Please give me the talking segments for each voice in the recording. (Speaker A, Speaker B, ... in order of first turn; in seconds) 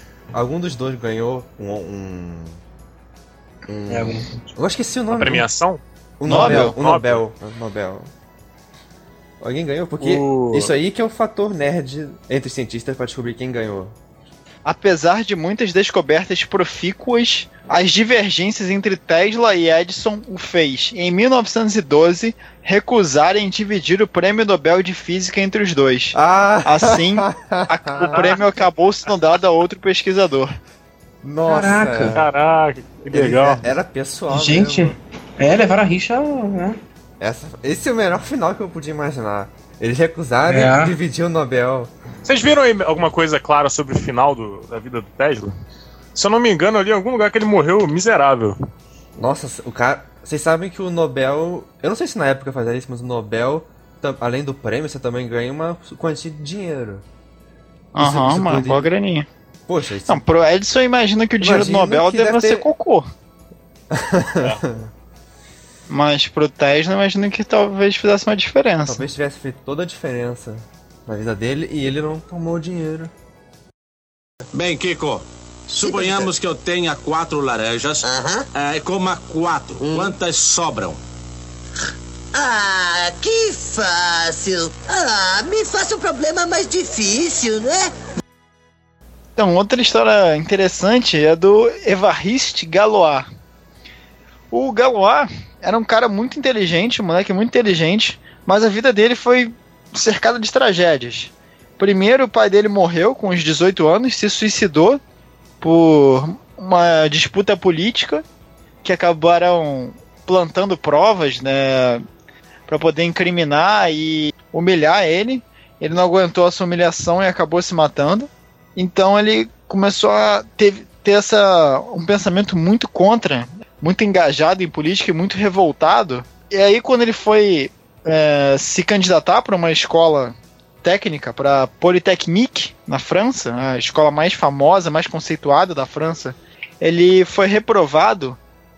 Speaker A: 0.3-2.6, 3.7-5.5, 6.2-8.1, 9.4-13.9, 26.1-28.4, 31.2-32.3, 33.0-35.0, 37.2-41.9, 49.2-57.0, 58.0-58.9, 59.7-60.2, 61.4-62.6, 63.9-64.9, 68.8-73.1
Speaker B: 3.9-4.5, 31.4-32.2, 34.3-36.8, 40.5-41.0
Speaker C: 5.1-7.2, 10.0-10.7, 28.0-28.3, 32.1-33.6, 42.2-45.5, 46.1-48.5
Speaker D: 6.3-6.8, 14.6-30.5, 57.9-59.2, 60.1-63.1, 65.9-69.0, 89.3-93.3, 94.5-105.0, 105.6-108.2, 108.8-112.0, 112.7-138.4
Speaker E: 74.5-81.0
Speaker F: 75.8-76.3, 78.0-78.5, 79.8-80.1, 82.3-87.9